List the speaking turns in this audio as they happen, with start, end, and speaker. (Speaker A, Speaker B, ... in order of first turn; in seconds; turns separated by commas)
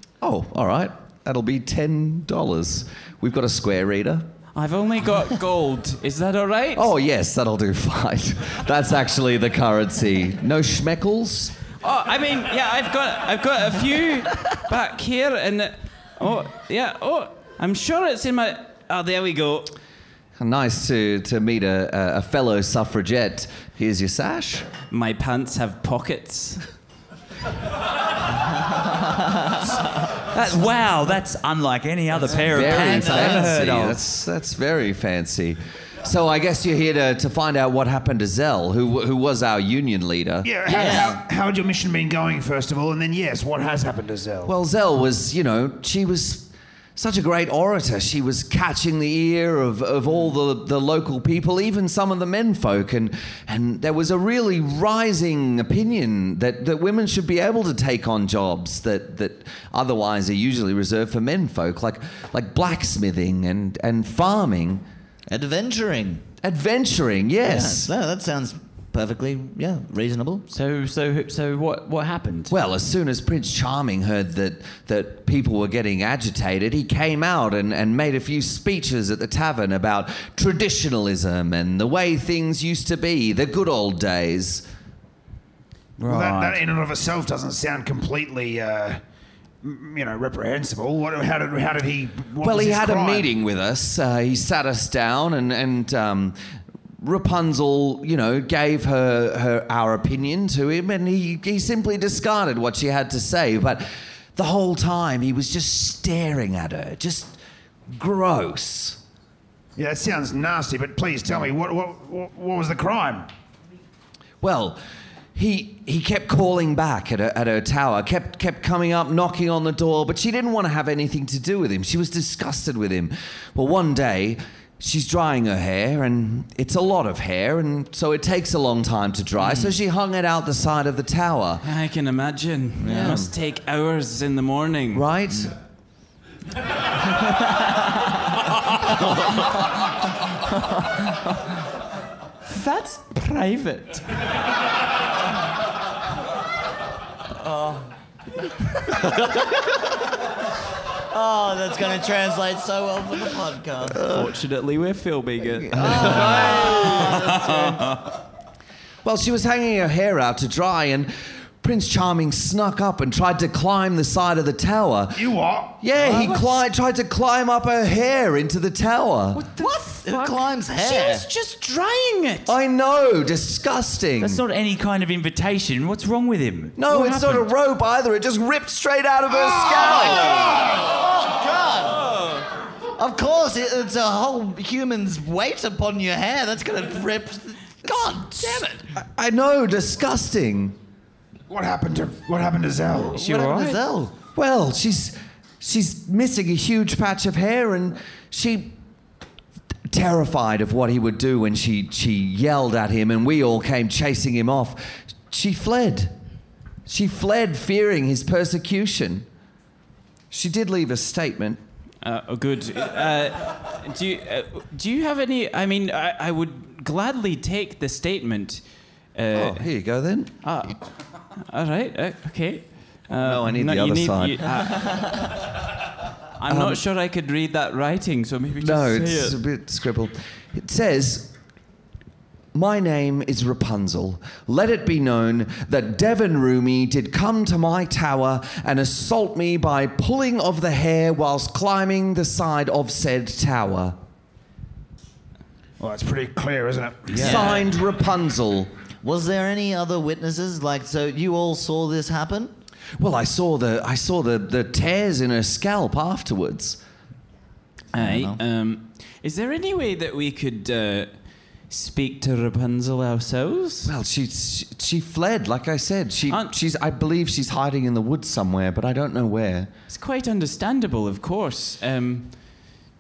Speaker A: 0.2-4.3, Speaker B: 4.5-6.9, Speaker A: 6.7-11.5, Speaker B: 11.8-19.7, Speaker A: 20.4-24.6, Speaker B: 24.9-26.6, Speaker C: 30.3-34.0, Speaker D: 32.3-33.5, Speaker A: 32.4-40.5, Speaker E: 40.4-44.5, Speaker D: 40.7-41.2, Speaker A: 44.5-64.8, Speaker D: 65.3-66.2, Speaker A: 66.4-67.9, Speaker D: 67.4-70.5, Speaker C: 70.5-72.5, Speaker A: 72.5-84.6, Speaker C: 86.0-86.6, Speaker E: 86.0-89.0, Speaker E: 89.6-93.3, Speaker A: 92.4-96.4, Speaker A: 97.0-107.4, Speaker A: 107.9-109.0, Speaker E: 109.8-113.3, Speaker A: 114.4-114.8, Speaker A: 115.3-131.6, Speaker B: 131.6-135.1, Speaker D: 132.8-133.2, Speaker A: 132.8-133.3, Speaker A: 134.9-135.5, Speaker B: 142.5-144.0, Speaker D: 151.1-154.3, Speaker B: 153.9-157.4, Speaker D: 155.7-157.8, Speaker A: 156.1-156.8, Speaker C: 157.0-157.5, Speaker A: 159.0-169.5, Speaker E: 165.1-165.8, Speaker D: 166.0-166.5, Speaker B: 169.4-172.5, Speaker D: 169.6-171.3, Speaker A: 172.5-174.4, Speaker C: 174.2-177.5, Speaker A: 176.8-180.6, Speaker D: 179.7-182.2, Speaker D: 183.0-188.8, Speaker A: 188.9-190.8, Speaker E: 191.5-193.2, Speaker D: 193.1-194.1, Speaker B: 193.2-193.8, Speaker A: 194.3-198.8, Speaker A: 199.9-206.1, Speaker A: 206.8-209.3, Speaker A: 210.3-211.6, Speaker B: 212.0-218.6, Speaker B: 219.1-219.6, Speaker A: 219.3-220.3, Speaker B: 220.4-220.8, Speaker B: 221.3-225.3, Speaker A: 223.2-224.6, Speaker B: 226.4-229.4, Speaker A: 226.5-226.8, Speaker A: 228.6-231.3, Speaker A: 232.5-244.0, Speaker E: 245.8-247.6, Speaker A: 247.1-248.7, Speaker D: 247.2-247.5, Speaker C: 247.2-247.5, Speaker D: 249.0-252.5, Speaker A: 253.0-256.8, Speaker B: 257.9-261.1, Speaker D: 258.0-258.4, Speaker B: 261.7-263.9, Speaker A: 263.8-269.7, Speaker B: 266.3-266.5, Speaker B: 269.9-272.4